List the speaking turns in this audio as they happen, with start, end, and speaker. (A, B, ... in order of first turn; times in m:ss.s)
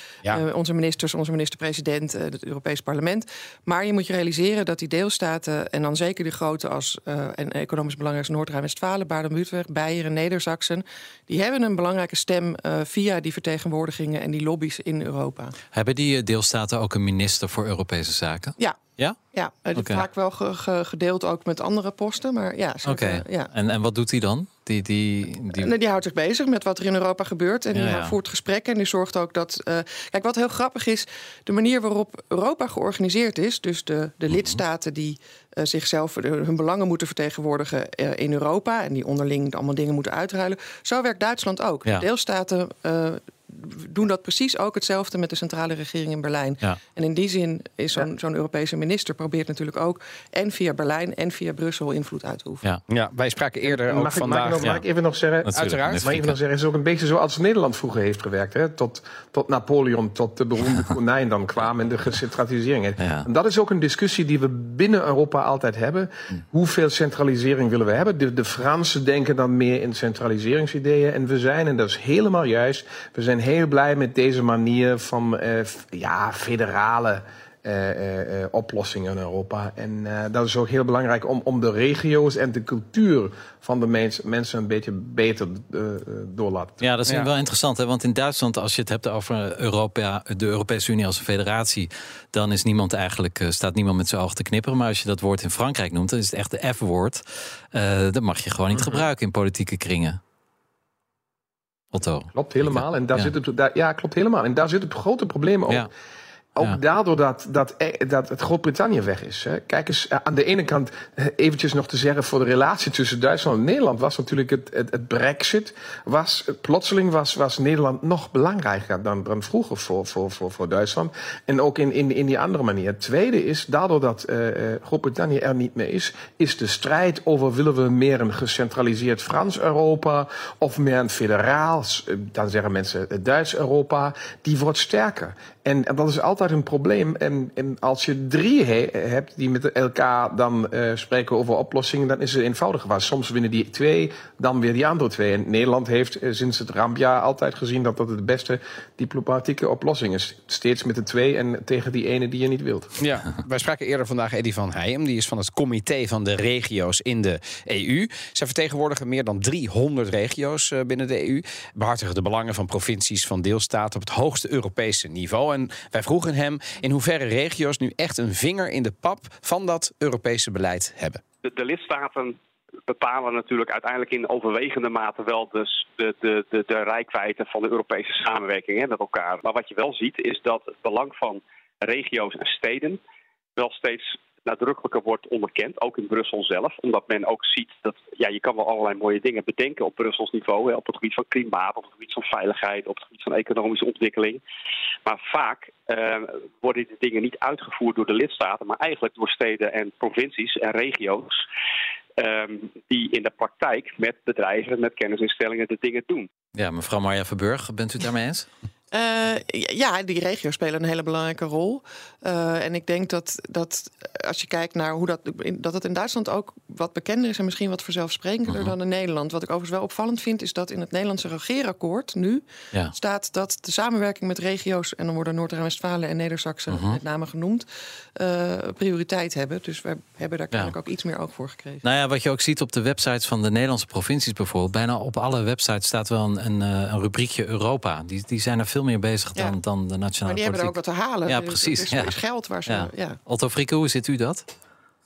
0:00.3-0:15.5 A
0:15.7-0:19.2 B
0:19.3-0:23.5 A
0:19.8-0:20.0 B
0:22.8-0:25.7 B
0:25.5-0:52.6 A
0:27.7-0:28.1 B
0:34.3-0:34.6 B
0:52.9-0:54.7 C
0:53.7-1:26.8 D
0:55.4-0:56.4 B
0:55.5-0:56.1 C
1:03.0-1:03.2 B
1:26.8-1:40.2 B
1:41.9-1:43.3 B
1:42.3-1:45.9 D
1:46.6-2:32.9 D
2:33.0-2:51.2 C
2:51.4-2:52.4 E
2:52.9-3:03.0 E
3:03.6-3:14.4 E
3:15.0-3:21.4 E
3:22.2-3:26.3 E
3:26.5-3:28.5 B
3:28.9-3:47.6 A
3:38.5-3:38.7 B
3:46.7-3:47.0 B
3:48.2-3:51.8 A
3:51.8-4:00.8 B
4:00.2-4:03.2 A
4:01.3-4:02.1 B
4:02.7-4:04.5 B